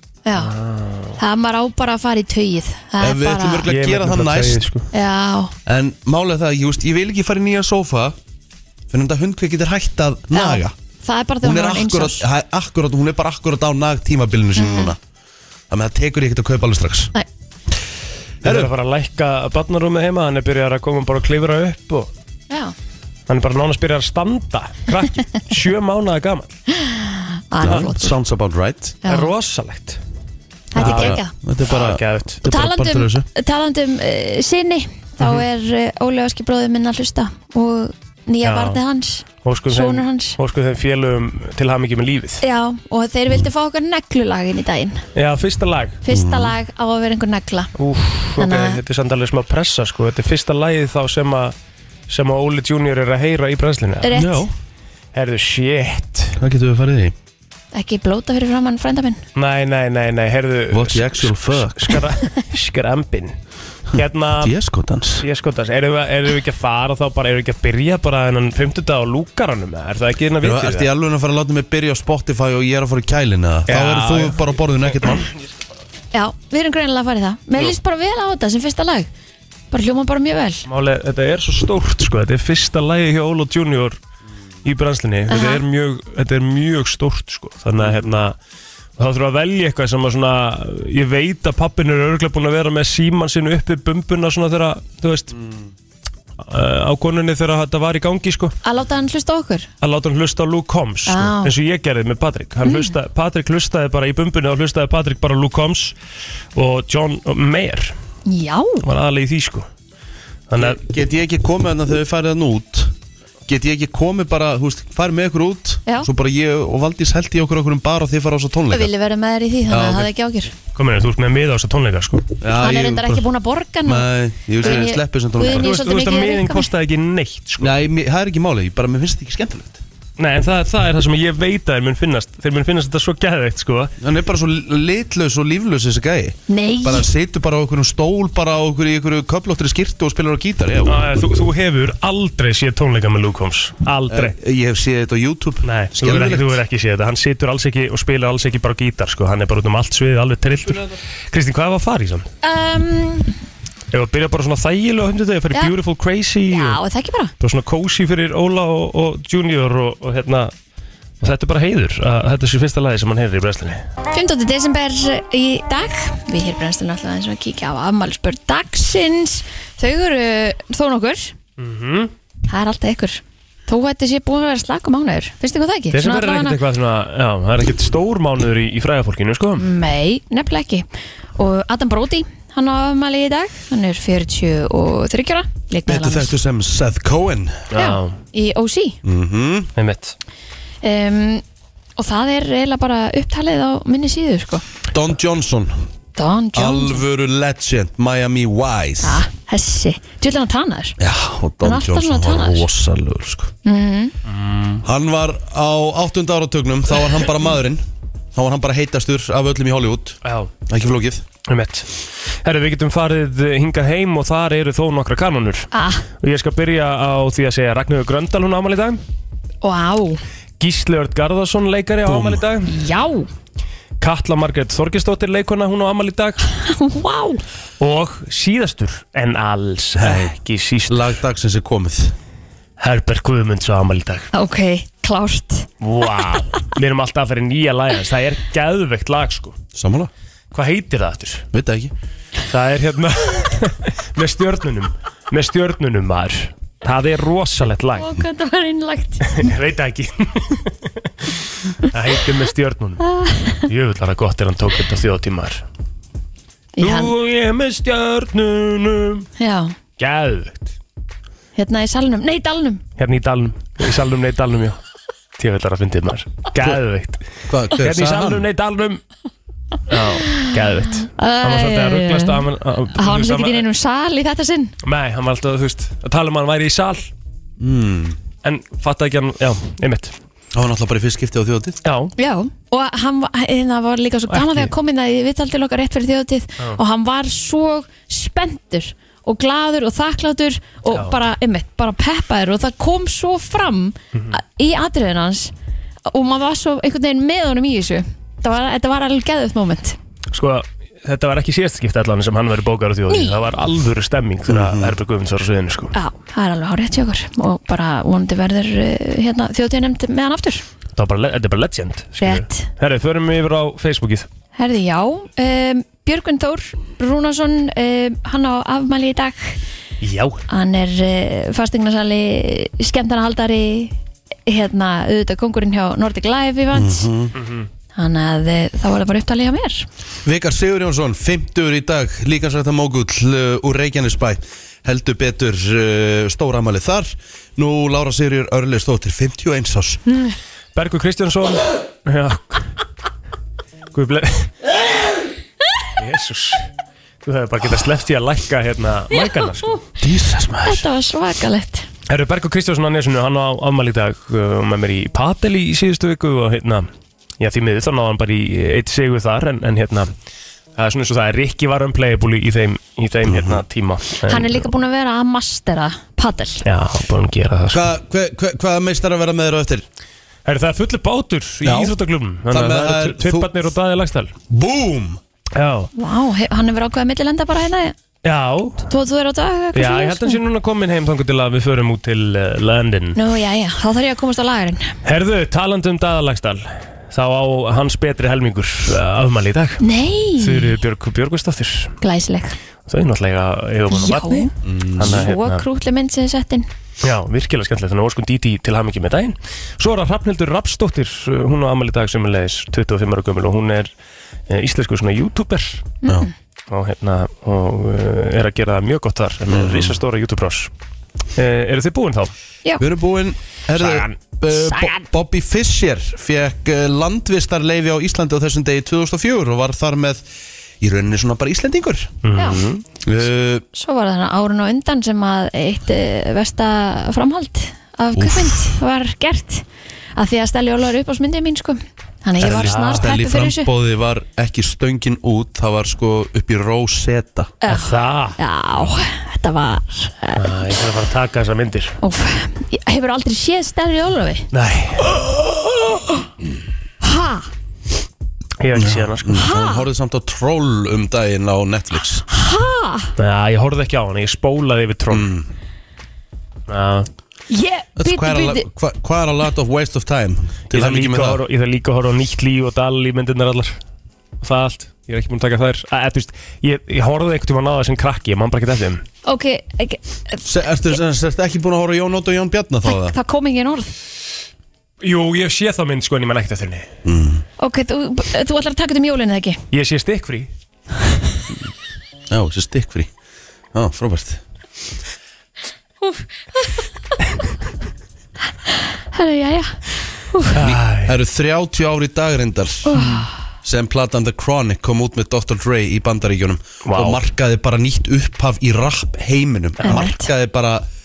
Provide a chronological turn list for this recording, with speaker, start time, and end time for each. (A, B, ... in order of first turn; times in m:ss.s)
0:00.2-0:00.5 A
0:00.4-0:01.2 B
0:01.2-0:03.7 A
0:03.0-0:04.6 C
0:03.7-0:04.9 B
0:04.9-0:05.5 A
0:05.6-0:08.2 C
0:08.9-0:10.7 C
0:10.3-0:12.2 A
0:11.4-0:15.0 C
0:14.6-0:14.9 A
0:15.7-0:17.1 C
0:18.4-0:18.7 C
0:18.4-0:22.1 B
0:23.3-0:26.6 B
0:26.7-0:28.2 A
0:27.6-0:29.0 C
0:29.0-0:29.3 A
0:29.0-0:30.0 B
0:30.7-0:31.3 A
0:30.7-0:33.3 C
0:30.8-0:32.4 B
0:32.4-0:40.4 A
0:38.4-0:38.8 B
0:39.4-0:42.4 B
0:42.4-0:45.0 A
0:45.1-0:46.0 B
0:46.0-0:47.7 A
0:46.1-0:46.5 C
0:47.8-0:51.5 B
0:48.4-0:48.8 A
0:52.1-0:54.2 B
0:54.0-0:54.4 A
0:54.1-0:54.5 C
0:55.1-0:56.4 B
0:56.4-0:57.1 C
0:57.7-0:59.2 A
0:59.3-1:03.4 B
1:00.7-1:02.0 C
1:03.9-1:04.5 B
1:03.9-1:05.2 C
1:05.2-1:10.9 B
1:10.4-1:15.3 C
1:13.7-1:15.3 B
1:16.1-1:19.1 A
1:19.7-1:20.6 A
1:20.7-1:24.0 B
1:24.6-1:28.4 B
1:25.3-1:25.6 A
1:29.0-1:35.3 B
1:35.3-1:35.7 C
1:36.4-1:38.5 B
1:38.6-1:39.7 A
1:39.8-1:45.9 B
1:41.1-1:41.5 A
1:42.6-1:42.9 A
1:46.5-1:47.9 B
1:48.2-1:48.8 A
1:48.8-1:49.7 B
1:50.5-1:50.8 B
1:50.6-1:52.9 C
1:53.5-1:58.9 C
1:58.7-2:00.5 A
1:59.7-2:00.1 C
2:00.7-2:02.3 B
2:02.4-2:03.3 C
2:02.6-2:06.7 A
2:03.8-2:05.7 C
2:05.4-2:07.7 B
2:07.6-2:09.8 C
2:10.2-2:13.9 B
2:14.0-2:21.1 C
2:16.5-2:17.1 A
2:20.8-2:24.4 B
2:24.1-2:26.6 C
2:25.6-2:32.3 B
2:32.4-2:33.3 A
2:33.9-2:36.8 B
2:36.5-2:37.3 A
2:37.4-2:40.5 B
2:41.2-2:43.8 B
2:44.1-2:51.3 A
2:51.6-2:52.1 B
2:52.5-2:56.6 A
2:55.9-2:59.6 B
2:59.6-3:06.3 A
3:05.9-3:07.7 C
3:07.7-3:08.2 B
3:07.8-3:09.0 A
3:09.0-3:09.7 C
3:09.8-3:10.2 B
3:10.8-3:11.4 A
3:12.0-3:14.6 A
3:14.9-3:15.8 C
3:16.2-3:17.0 A
3:16.5-3:19.2 C
3:19.0-3:21.0 A
3:21.0-3:23.5 C
3:21.6-3:22.6 A
3:23.6-3:24.1 A
3:24.2-3:24.8 B
3:24.8-3:27.8 C
3:28.3-3:31.2 C
3:30.2-3:30.5 B
3:31.5-3:31.9 B
3:32.4-3:35.7 B
3:35.7-3:36.0 A
3:36.2-3:39.0 B
3:39.6-3:40.2 A
3:40.6-3:42.7 B
3:42.0-3:42.4 C
3:42.7-3:43.3 A
3:44.0-3:46.4 B
3:46.6-3:47.4 A
3:47.8-3:51.2 B
3:50.0-3:50.3 C
3:50.9-3:52.1 C
3:52.8-3:54.3 B
3:54.3-3:55.7 A
3:55.8-3:59.6 B
3:59.7-4:00.1 C
4:00.5-4:01.4 B
4:01.5-4:01.9 C
4:02.5-4:08.1 B
4:08.0-4:09.4 A
4:09.2-4:10.9 B
4:11.9-4:13.0 B
4:13.0-4:13.6 A
4:13.6-4:15.6 B
4:16.8-4:17.1 A
4:16.8-4:19.3 B
4:19.4-4:19.7 A
4:20.0-4:20.7 B
4:21.6-4:22.8 A
4:23.0-4:24.8 B
4:25.4-4:29.0 B
4:27.5-4:28.5 C
4:29.9-4:33.7 B
4:31.1-4:32.4 A
4:32.9-4:34.7 A
4:34.8-4:37.1 B
4:37.6-4:38.2 C
4:38.4-4:40.1 B
4:40.5-4:41.8 C
4:41.8-4:42.1 B
4:42.2-4:55.5 A
4:44.3-4:44.7 B
4:56.1-5:00.0 A
5:00.3-5:05.9 B
5:03.1-5:03.4 A
5:04.5-5:04.9 C
5:05.9-5:10.6 A
5:11.0-5:14.3 B
5:12.2-5:12.7 A
5:14.6-5:19.6 A
5:20.0-5:20.4 B
5:20.5-5:27.1 A
5:26.7-5:27.3 C
5:27.3-5:27.7 B
5:27.9-5:29.8 A
5:30.2-5:40.0 C
5:40.7-5:42.7 B
5:43.9-5:44.5 B
5:46.0-5:46.7 B
5:47.2-5:49.8 B
5:50.0-5:50.8 C
5:50.6-5:51.9 A
5:52.1-5:56.9 B
5:57.4-6:00.1 B
6:00.8-6:04.7 B
6:03.3-6:03.6 C
6:04.3-6:06.6 A
6:06.6-6:07.8 B
6:07.7-6:09.8 C
6:10.4-6:14.3 B
6:11.6-6:12.0 C
6:12.5-6:13.5 C
6:14.5-6:15.2 C
6:15.5-6:15.9 B
6:16.0-6:17.9 A
6:18.2-6:18.9 B
6:18.9-6:20.4 A
6:19.7-6:23.2 B
6:23.1-6:25.0 A
6:25.0-6:29.8 B
6:29.8-6:30.7 A
6:30.4-6:31.9 B
6:32.0-6:32.6 A
6:32.9-6:35.6 B
6:33.9-6:36.7 A
6:34.6-6:35.3 C
6:37.0-6:43.9 B
6:44.5-6:45.9 B
6:46.0-6:46.3 A
6:46.7-6:50.7 B
6:49.5-6:50.0 C
6:51.3-6:52.3 B
6:52.8-7:00.2 C
6:53.8-6:54.1 B
7:00.8-7:02.2 C
7:02.2-7:02.8 B
7:02.3-7:02.6 A
7:03.0-7:03.6 C
7:03.7-7:09.6 A
7:08.1-7:08.7 C
7:10.2-7:13.7 A
7:12.4-7:13.1 B
7:12.4-7:17.5 C
7:17.6-7:20.7 A
7:17.7-7:18.4 B
7:20.4-7:22.0 B
7:22.0-7:24.5 A
7:24.5-7:25.5 B
7:27.0-7:27.5 A
7:28.6-7:29.3 B
7:28.7-7:32.2 C
7:29.3-7:29.8 A
7:32.3-7:33.1 A
7:33.2-7:35.3 B
7:35.1-7:35.5 C
7:36.7-7:37.1 B
7:37.5-7:38.7 A
7:38.0-7:41.4 C
7:40.7-7:43.8 B
7:44.4-7:49.0 B
7:49.2-7:50.4 A
7:50.4-7:53.2 C
7:52.8-7:53.9 A
7:55.0-7:56.9 B
7:57.0-7:57.4 C
7:57.6-7:59.6 A
7:59.7-8:00.5 B
8:02.3-8:03.1 C
8:03.7-8:04.4 C
8:08.7-8:09.8 A
8:10.3-8:10.5 A
8:10.5-8:11.1 B
8:10.6-8:13.0 C
8:12.9-8:13.3 A
8:13.6-8:20.8 C
8:16.8-8:17.2 B
8:19.8-8:20.3 A